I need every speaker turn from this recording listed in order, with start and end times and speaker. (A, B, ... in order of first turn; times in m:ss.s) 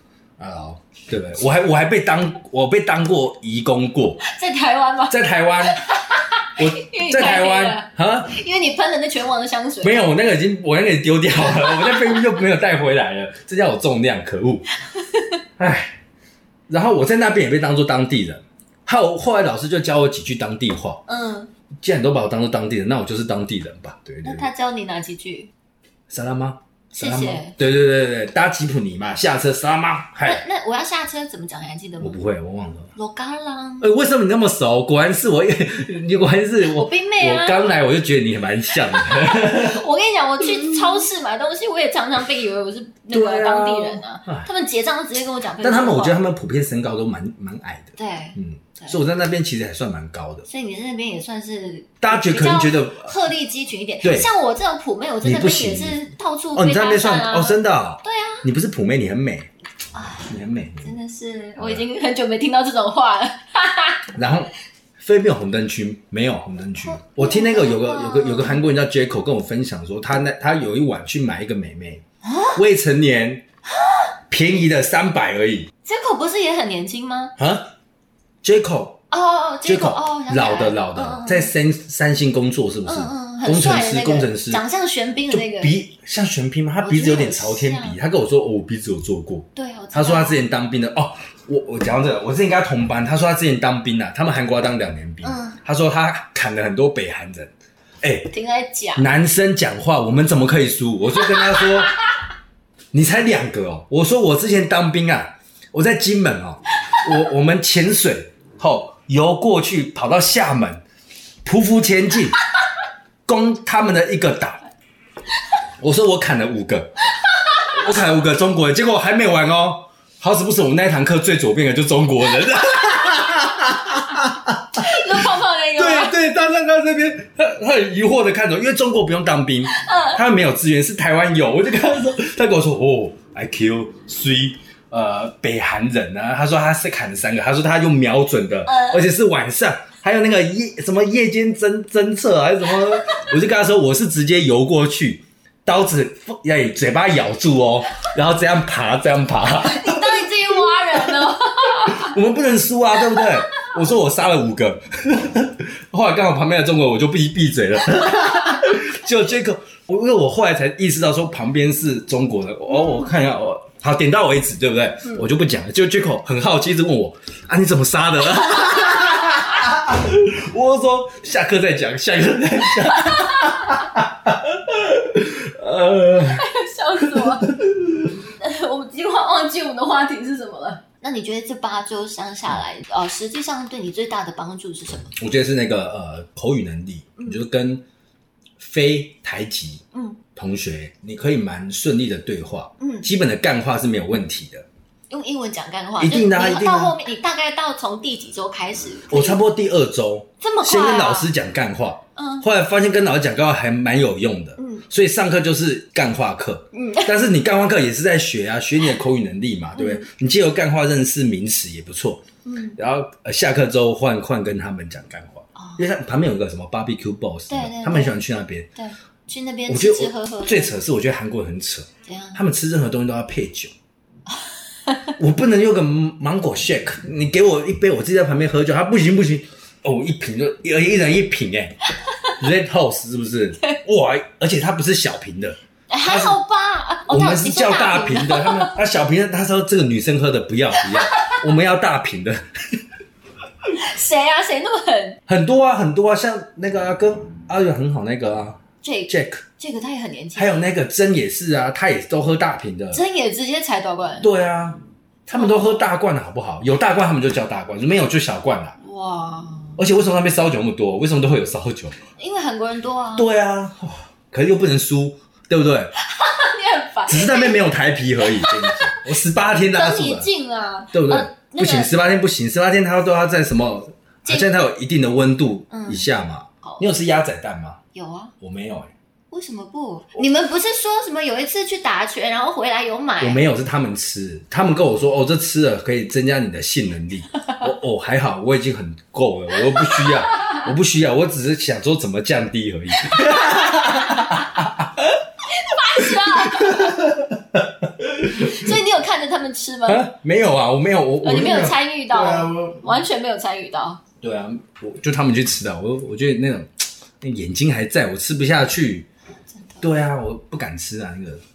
0:00.4-0:04.2 A
0:04.2-0:10.1 B
0:05.1-0:05.8 A
0:06.6-0:08.4 A
0:09.8-0:14.7 A
0:11.4-0:12.3 B
0:14.9-0:15.4 B
0:15.6-0:16.0 A
0:16.7-0:21.0 A
0:21.1-0:21.5 B
0:21.8-0:24.5 A
0:24.2-0:25.5 B
0:26.1-0:30.4 A
0:26.9-0:27.6 B
0:30.2-0:32.2 B
0:32.0-0:32.9 A
0:33.0-0:33.9 B
0:33.8-0:39.8 A
0:36.7-0:37.7 B
0:39.0-0:46.2 B
0:43.1-0:44.5 A
0:45.6-0:50.5 A
0:48.0-0:49.0 B
0:50.5-0:58.4 B
0:52.0-0:53.1 A
0:54.0-0:54.3 A
0:55.2-0:59.5 A
0:59.9-1:00.3 B
1:00.3-1:01.0 A
1:00.8-1:04.1 B
1:01.6-1:01.8 A
1:04.1-1:12.0 A
1:06.8-1:08.6 B
1:12.2-1:12.6 B
1:12.6-1:13.4 A
1:13.8-1:14.0 B
1:14.3-1:15.7 A
1:15.8-1:17.4 B
1:17.4-1:17.7 A
1:18.4-1:19.0 A
1:19.1-1:21.5 B
1:19.6-1:24.6 A
1:22.9-1:25.7 B
1:25.3-1:38.3 A
1:26.8-1:28.0 B
1:29.6-1:30.4 B
1:35.2-1:35.6 B
1:38.3-1:39.1 B
1:39.0-1:42.0 A
1:41.4-1:42.1 B
1:42.9-1:50.8 A
1:51.4-1:52.4 A
1:53.3-1:54.6 A
1:55.8-1:57.0 A
1:57.6-2:56.4 A
2:04.8-2:06.2 B
2:09.7-2:10.2 B
2:18.7-2:19.0 B
2:29.6-2:32.1 B
2:33.1-2:33.7 B
2:48.6-2:49.4 B
2:52.9-2:53.7 B
2:56.3-2:57.5 B
2:57.0-2:58.1 A
2:58.4-3:05.1 B
3:05.1-3:07.8 A
3:07.2-3:07.4 B
3:08.6-3:09.8 A
3:09.9-3:10.2 B
3:10.4-3:14.7 A
3:12.8-3:13.1 B
3:15.1-3:19.4 B
3:16.0-3:17.0 A
3:19.1-3:32.2 A
3:20.4-3:21.3 B
3:22.2-3:22.5 B
3:24.6-3:24.8 B
3:26.7-3:27.1 B
3:29.8-3:30.1 B
3:32.4-3:32.8 B
3:32.8-3:38.7 A
3:35.6-3:35.8 B
3:37.5-3:38.2 B
3:38.8-3:40.8 B
3:39.7-3:43.7 A
3:42.1-3:42.4 B
3:44.9-3:45.1 B
3:45.2-3:51.8 A
3:52.4-3:56.4 A
3:55.9-3:58.8 B
3:57.1-4:02.8 A
4:00.9-4:01.4 B
4:03.8-4:05.2 B
4:05.3-4:09.4 A
4:08.8-4:10.7 B
4:10.4-4:13.0 A
4:12.9-4:14.3 B
4:14.2-4:18.8 A
4:15.3-4:15.8 B
4:18.8-4:19.8 B
4:19.8-4:22.0 A
4:22.2-4:23.3 B
4:23.2-4:25.9 A
4:26.0-4:27.6 B
4:27.1-4:30.3 A
4:28.2-4:29.1 B
4:29.7-4:31.9 B
4:30.9-4:37.8 A
4:35.7-4:36.1 B
4:36.6-4:36.9 B
4:37.9-4:38.4 B
4:38.4-4:38.9 A
4:39.3-4:43.4 B
4:43.2-4:55.2 A
4:49.8-4:50.7 B
4:53.0-4:54.4 B
4:55.5-4:57.1 B
4:56.0-4:58.8 A
4:58.4-5:00.1 B
4:59.9-5:03.0 A
5:01.2-5:04.0 B
5:04.2-5:09.1 A
5:09.5-5:09.9 B
5:09.8-5:11.4 A